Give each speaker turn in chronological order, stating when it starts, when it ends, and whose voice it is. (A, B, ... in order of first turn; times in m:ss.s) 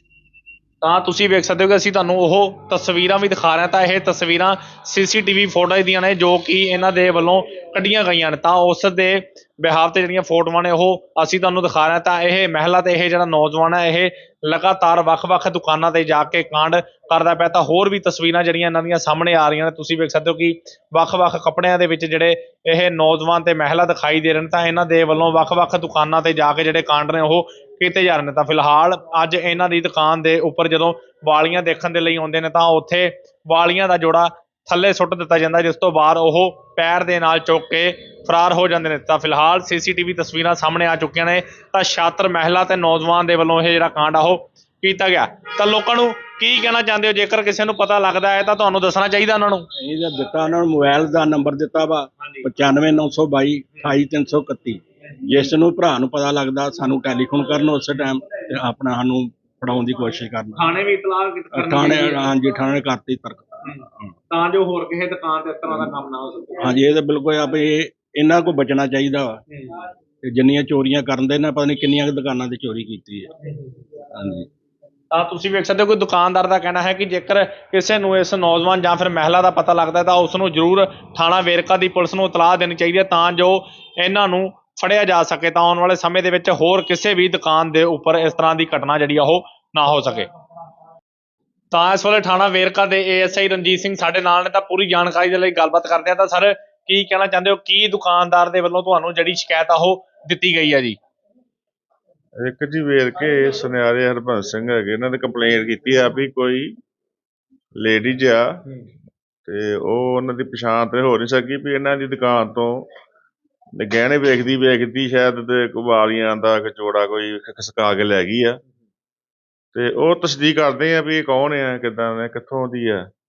0:00.8-0:49.7 A
0:49.8-1:00.6 B
1:00.6-1:02.3 A
1:01.5-1:04.1 B
1:03.6-1:06.8 A
1:06.6-1:09.4 B
1:09.5-1:09.8 A
1:10.3-1:13.3 B
1:13.4-1:13.8 A
1:14.1-1:14.5 B
1:15.1-1:30.3 A
1:31.7-1:41.0 A
1:42.4-1:46.8 C
1:47.8-1:48.6 C
1:49.4-1:52.9 C
1:53.8-1:58.6 C
1:59.7-2:03.1 C